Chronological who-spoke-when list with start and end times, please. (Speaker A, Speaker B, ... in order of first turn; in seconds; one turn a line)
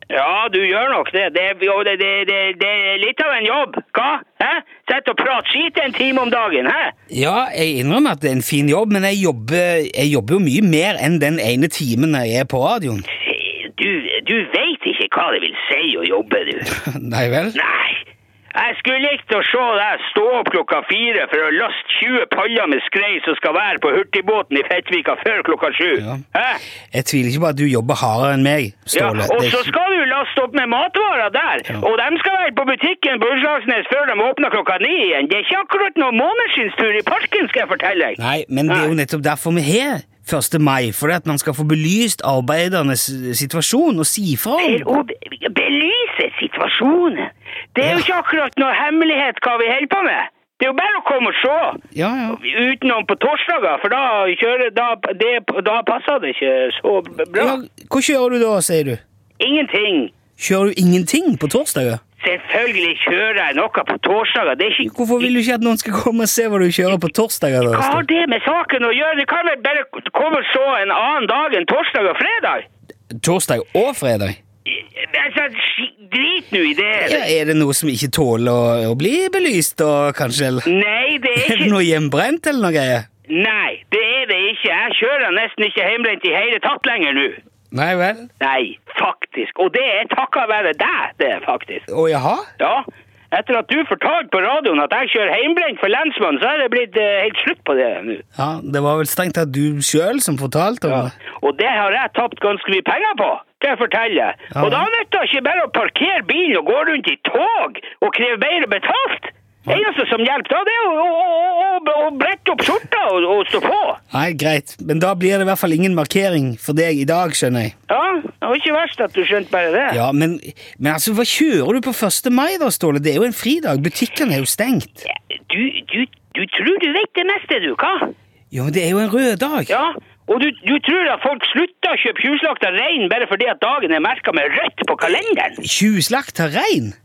Speaker A: 0.1-6.9
Speaker B: 7.1-13.1
Speaker A: 13.2-16.7
Speaker B: 16.6-17.6
Speaker A: 17.5-26.6
Speaker B: 25.9-26.2
Speaker B: 26.9-29.7
Speaker A: 28.9-38.9
Speaker B: 38.2-45.0
Speaker A: 44.6-57.6
Speaker B: 47.8-48.1
Speaker B: 51.9-52.4
Speaker B: 57.3-59.0
Speaker A: 59.4-60.1
Speaker B: 60.4-62.0
Speaker A: 62.2-64.9
Speaker B: 64.8-68.0
Speaker A: 67.7-72.7
Speaker B: 73.2-74.4
Speaker A: 74.7-77.3
Speaker B: 76.9-80.7
Speaker A: 80.7-81.8
Speaker B: 81.3-83.0
Speaker A: 83.3-87.4
Speaker B: 87.7-88.3
Speaker A: 88.4-91.8
Speaker B: 91.9-92.5
Speaker A: 92.6-98.2
Speaker B: 98.3-101.1
Speaker A: 100.9-114.0
Speaker B: 104.5-104.9
Speaker B: 114.1-117.7
Speaker A: 117.9-120.0
Speaker B: 119.9-125.0
Speaker A: 125.0-128.1
Speaker B: 128.5-129.7
Speaker A: 129.7-135.6
Speaker B: 135.6-136.9